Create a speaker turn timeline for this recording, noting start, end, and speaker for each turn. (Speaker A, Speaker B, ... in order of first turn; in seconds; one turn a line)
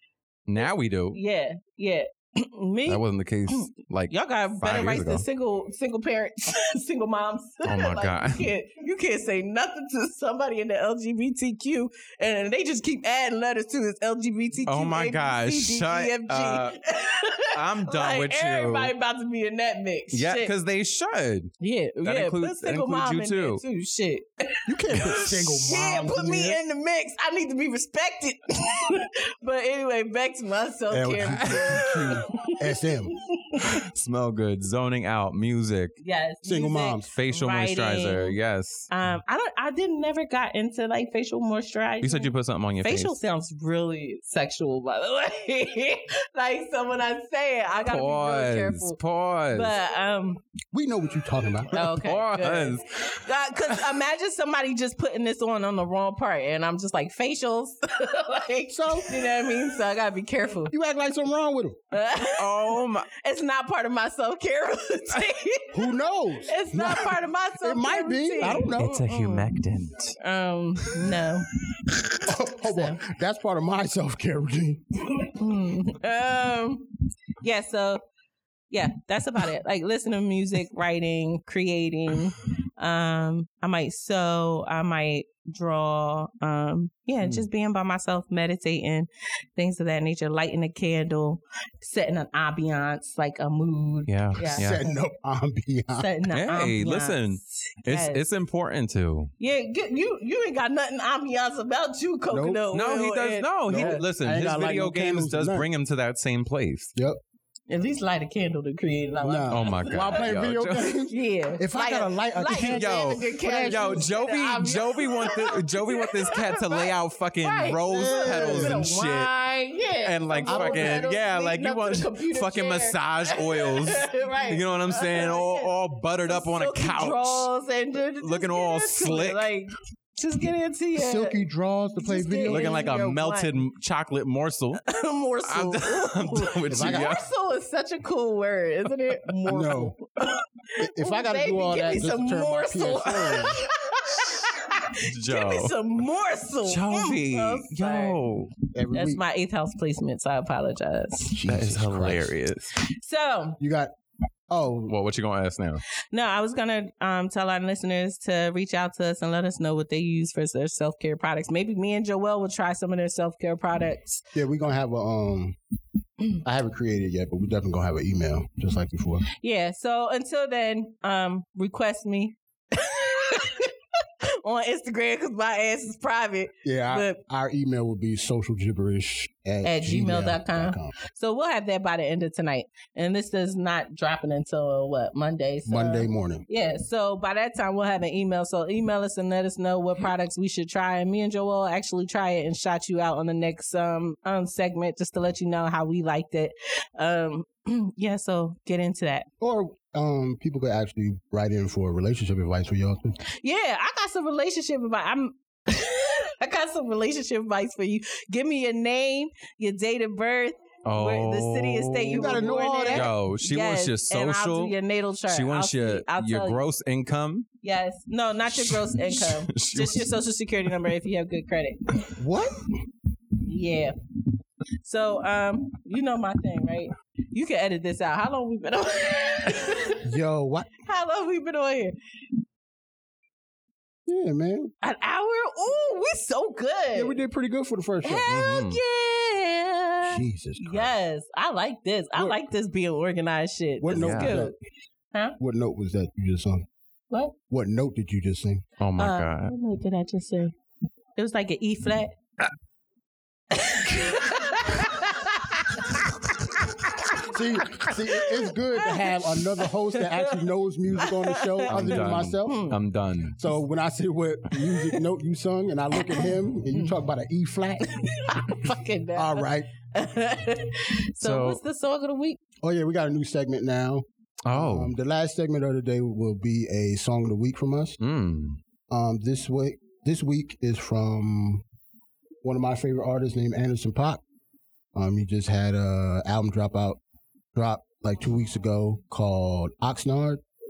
Speaker A: 0.5-1.2
Speaker B: 0.6-20.5
Speaker A: 2.9-5.2
Speaker A: 7.7-8.5
Speaker A: 14.7-16.8
Speaker A: 17.5-18.9
Speaker A: 20.1-23.6
Speaker B: 21.6-32.6
Speaker C: 24.7-26.6
Speaker C: 30.9-33.1
Speaker A: 31.4-32.2
Speaker B: 33.5-33.8
Speaker A: 33.7-36.0
Speaker B: 36.0-38.4
Speaker C: 36.4-37.1
Speaker A: 37.1-38.9
Speaker B: 38.9-49.0
Speaker A: 42.0-43.2
Speaker A: 47.8-49.8
Speaker B: 49.5-50.4
Speaker C: 50.7-51.9
Speaker B: 51.7-60.7
Speaker A: 51.7-52.9
Speaker C: 58.7-59.1
Speaker C: 60.7-61.8
Speaker B: 61.9-65.8
Speaker A: 62.4-63.1
Speaker C: 65.7-69.1
Speaker B: 66.5-69.5
Speaker A: 68.8-70.2
Speaker B: 70.2-71.5
Speaker C: 72.2-74.8
Speaker B: 72.7-73.0
Speaker B: 75.3-76.9
Speaker B: 77.4-78.0
Speaker B: 78.7-94.9
Speaker A: 94.1-94.8
Speaker C: 94.6-96.1
Speaker B: 96.0-98.2
Speaker A: 96.3-99.3
Speaker B: 99.4-104.0
Speaker C: 102.3-102.6
Speaker A: 102.7-106.9
Speaker C: 103.7-105.7
Speaker B: 107.7-110.3
Speaker C: 109.2-114.1
Speaker A: 109.5-110.9
Speaker B: 111.1-125.7
Speaker A: 112.5-119.3
Speaker C: 117.9-118.8
Speaker A: 120.0-127.5
Speaker C: 120.4-121.1
Speaker B: 126.2-131.4
Speaker A: 128.2-129.4
Speaker C: 130.9-132.8
Speaker B: 132.0-133.6
Speaker A: 132.5-134.8
Speaker B: 134.9-140.1
Speaker A: 135.4-137.2
Speaker C: 136.7-137.1
Speaker C: 139.5-139.9
Speaker B: 140.8-148.2
Speaker C: 140.8-143.6
Speaker A: 145.1-145.8
Speaker A: 146.7-148.5
Speaker C: 148.7-149.2
Speaker B: 148.9-151.4
Speaker C: 151.3-152.3
Speaker A: 151.4-152.8
Speaker B: 153.0-153.6
Speaker C: 153.6-153.9
Speaker C: 154.5-154.9
Speaker A: 154.9-155.8
Speaker B: 156.1-164.2
Speaker C: 164.3-165.6
Speaker C: 166.4-169.3
Speaker B: 169.4-173.7
Speaker B: 174.4-177.2
Speaker C: 176.6-180.9
Speaker B: 179.6-199.3
Speaker C: 185.7-186.4
Speaker C: 199.4-203.2
Speaker B: 203.4-216.6
Speaker A: 210.8-214.8
Speaker C: 212.1-213.1
Speaker A: 215.3-217.5
Speaker B: 217.6-221.8
Speaker A: 218.5-220.1
Speaker C: 222.2-222.7
Speaker B: 223.4-223.9
Speaker B: 224.8-230.0
Speaker C: 230.0-230.7
Speaker B: 230.9-231.9
Speaker C: 234.1-234.7
Speaker B: 234.8-237.2
Speaker C: 236.9-238.4
Speaker B: 238.0-244.5
Speaker A: 238.3-238.8
Speaker C: 240.0-241.0
Speaker C: 243.8-244.5
Speaker A: 243.9-244.4
Speaker C: 245.4-246.7
Speaker C: 247.5-248.6
Speaker A: 248.8-249.5
Speaker B: 249.0-250.5
Speaker B: 251.2-252.1
Speaker B: 253.5-255.9
Speaker C: 257.3-262.7
Speaker B: 258.1-260.4
Speaker B: 261.0-262.8
Speaker A: 261.7-263.5
Speaker C: 263.4-267.9
Speaker B: 266.1-266.9
Speaker B: 268.0-272.4
Speaker C: 269.1-269.7
Speaker A: 271.2-271.6
Speaker C: 272.6-278.0
Speaker A: 274.4-274.9
Speaker A: 278.0-278.6
Speaker C: 278.9-281.6
Speaker C: 282.4-284.2
Speaker C: 284.9-287.0
Speaker C: 287.6-290.4